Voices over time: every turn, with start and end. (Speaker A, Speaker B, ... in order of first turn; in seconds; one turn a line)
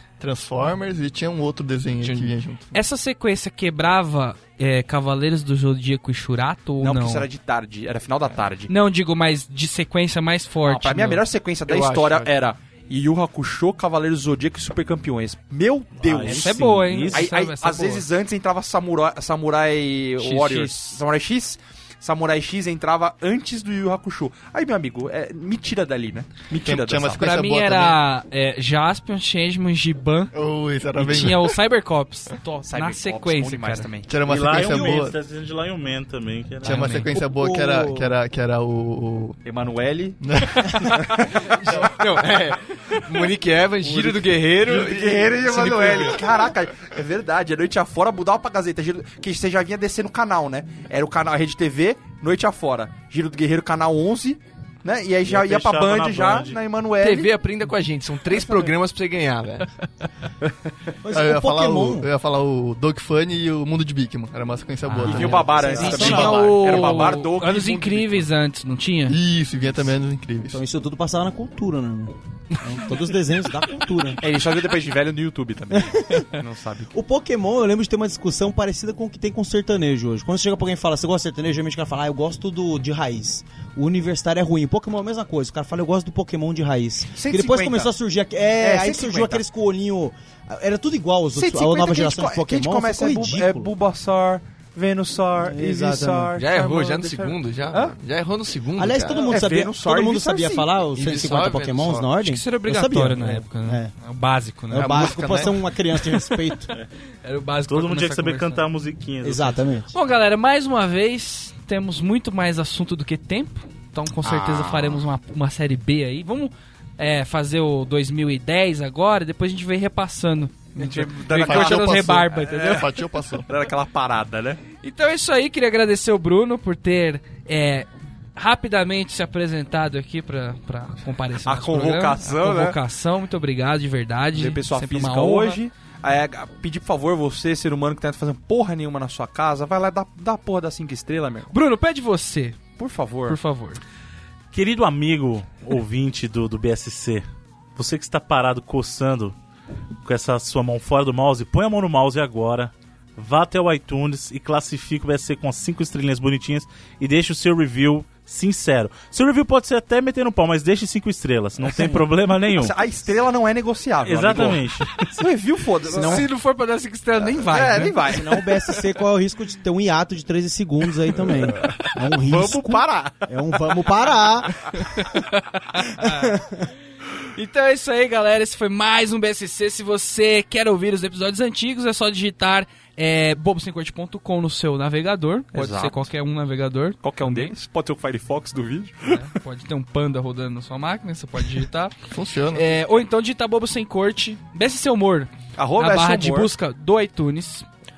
Speaker A: 0.2-2.7
Speaker B: 2.0-2.3
Speaker C: 2.7-7.2
Speaker D: 6.8-8.7
Speaker C: 8.7-11.2
Speaker D: 10.7-27.2
Speaker B: 11.7-12.3
Speaker E: 16.0-17.3
Speaker C: 16.2-18.1
Speaker C: 20.2-21.0
Speaker A: 26.6-28.0
Speaker C: 27.2-30.3
Speaker A: 30.3-31.6
Speaker C: 30.9-33.9
Speaker D: 32.7-34.1
Speaker A: 34.1-35.2
Speaker E: 34.2-37.0
Speaker A: 36.6-39.4
Speaker B: 36.6-37.0
Speaker F: 37.1-38.1
Speaker D: 39.4-41.9
Speaker A: 40.2-41.2
Speaker B: 41.4-46.0
Speaker D: 43.9-57.3
Speaker A: 44.6-46.1
Speaker E: 55.2-56.6
Speaker B: 57.0-59.7
Speaker F: 61.0-62.1
Speaker A: 61.1-66.2
Speaker C: 64.9-69.2
Speaker D: 64.9-68.1
Speaker F: 65.0-66.6
Speaker A: 69.1-70.6
Speaker F: 70.5-74.2
Speaker D: 74.2-76.9
Speaker F: 75.7-76.3
Speaker F: 76.9-93.7
Speaker D: 87.1-87.9
Speaker D: 88.6-89.4
Speaker D: 91.3-97.9
Speaker F: 95.4-96.4
Speaker B: 96.3-99.2
Speaker F: 98.8-103.9
Speaker D: 99.2-100.7
Speaker B: 100.9-102.1
Speaker C: 102.2-105.2
Speaker F: 104.7-106.7
Speaker B: 104.7-105.6
Speaker C: 107.2-108.7
Speaker E: 107.7-109.6
Speaker F: 109.2-109.9
Speaker C: 109.9-122.9
Speaker D: 120.8-122.8
Speaker A: 121.0-123.5
Speaker D: 123.5-124.6
Speaker C: 124.8-135.6
Speaker D: 131.4-132.8
Speaker D: 134.3-141.5
Speaker C: 141.5-142.6
Speaker D: 142.8-143.4
Speaker C: 143.2-143.8
Speaker E: 144.5-147.2
Speaker E: 147.8-149.3
Speaker E: 150.0-162.7
Speaker D: 162.5-166.3
Speaker E: 164.0-165.1
Speaker F: 165.9-166.3
Speaker C: 165.9-168.1
Speaker D: 167.2-168.4
Speaker F: 168.1-175.0
Speaker D: 172.2-173.2
Speaker C: 174.7-176.3
Speaker F: 175.9-176.7
Speaker C: 177.3-187.5
Speaker D: 185.5-186.1
Speaker D: 187.0-189.2
Speaker C: 189.1-191.9
Speaker A: 192.1-192.7
Speaker C: 192.5-197.7
Speaker D: 195.6-196.5